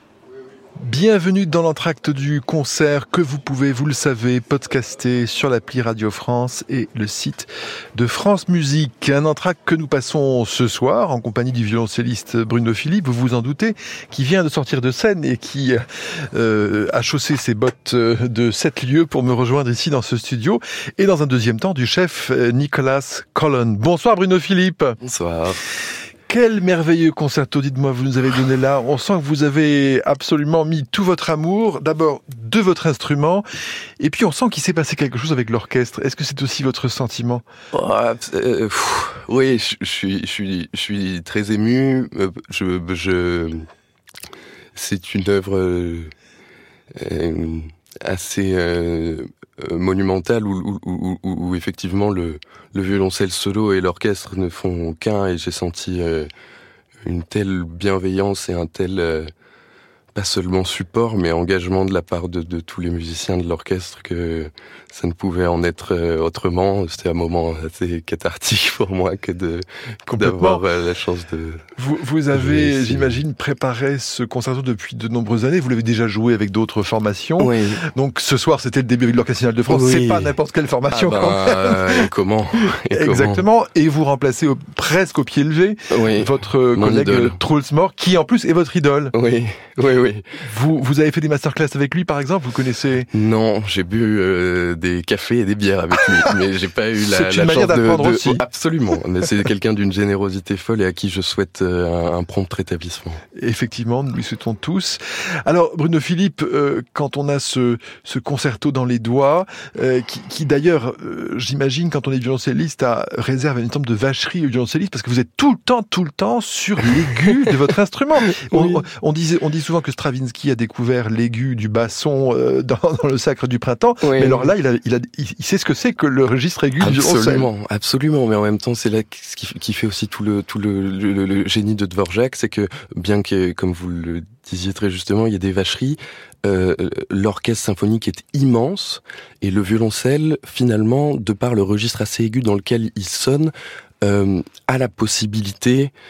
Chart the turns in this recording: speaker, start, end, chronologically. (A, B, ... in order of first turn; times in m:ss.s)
0:00.8-0:25.0 A
0:25.0-0:25.6 B
0:26.3-0:33.4 A
0:34.0-0:37.4 A
0:37.7-0:43.7 B
0:44.7-0:46.1 B
0:47.0-0:56.3 B
0:57.0-0:59.3 B
1:00.1-1:11.6 B
1:10.1-1:10.6 A
1:11.8-1:22.1 A
1:12.3-1:13.2 B
1:17.4-1:17.8 B
1:19.7-1:20.4 B
1:20.9-1:23.4 B
1:22.8-1:29.1 A
1:25.9-1:27.4 B
1:29.1-1:30.4 B
1:30.4-1:33.1 A
1:33.1-1:43.2 B
1:37.0-1:38.4 A
1:43.4-2:07.5 A
1:58.3-1:58.8 B
2:04.0-2:04.5 B
2:06.8-2:25.9 B